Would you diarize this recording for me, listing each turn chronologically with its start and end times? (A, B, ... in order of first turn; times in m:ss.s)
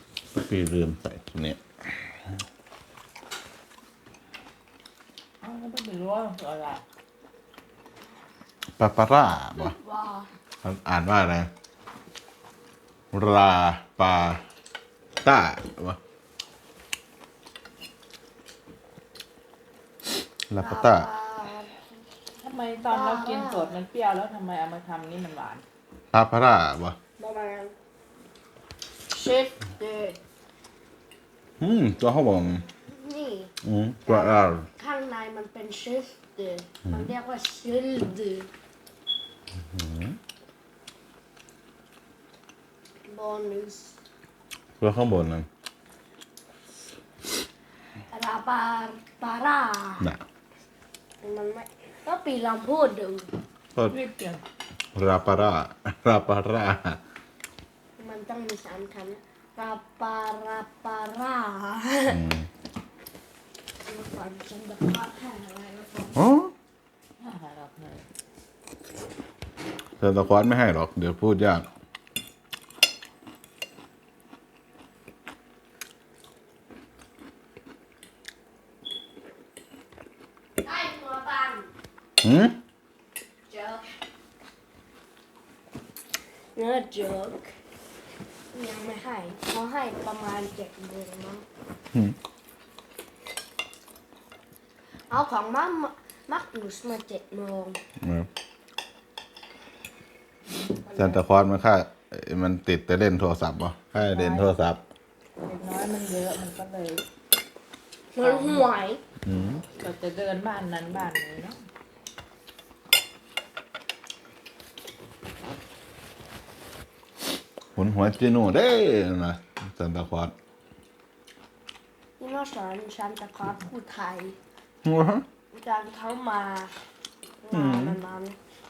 0:00.3-0:01.6 A
0:05.4-0:06.8 B
0:08.8-0:09.8 A
0:09.6-0:10.3 C
0:10.6-0:11.5 A
0:13.1-0:14.4 A
0:15.2-0:16.0 A
0:20.5-0:21.1 A
0:20.6-0:21.8 C
0:22.4-0:25.6 B
0:22.8-0:23.7 C
0:26.1-0:27.0 A
0:27.2-0:27.7 C
0:29.1-0:30.2 C
0:31.6-0:32.7 A
0:32.8-0:33.5 C
0:33.6-0:34.7 A
0:34.0-0:38.5 C
0:39.7-0:40.2 A
0:43.1-0:44.0 C
0:44.8-0:45.5 A
0:48.1-0:50.1 C
0:51.2-0:53.3 C
0:53.9-0:54.4 B
0:54.9-0:57.0 A
0:58.0-1:02.2 C
1:02.1-1:02.5 A
1:03.8-1:06.2 C
1:06.1-1:06.5 A
1:07.2-1:08.0 B
1:10.0-1:11.7 A
1:20.6-1:21.7 C
1:22.2-1:22.6 A
1:23.5-1:23.9 C
1:26.5-1:27.5 C
1:28.5-1:31.4 C
1:35.1-1:37.8 C
1:38.0-1:38.3 A
1:40.5-1:41.2 B
1:40.9-1:44.8 A
1:43.9-1:44.5 B
1:45.4-1:47.0 B
1:48.1-1:49.0 C
1:48.2-1:48.7 B
1:49.2-1:49.6 A
1:49.7-1:51.6 B
1:57.8-2:00.3 A
2:02.2-2:04.4 C
2:04.8-2:05.2 A
2:05.5-2:06.7 C
2:07.4-2:08.4 C
2:07.5-2:08.0 A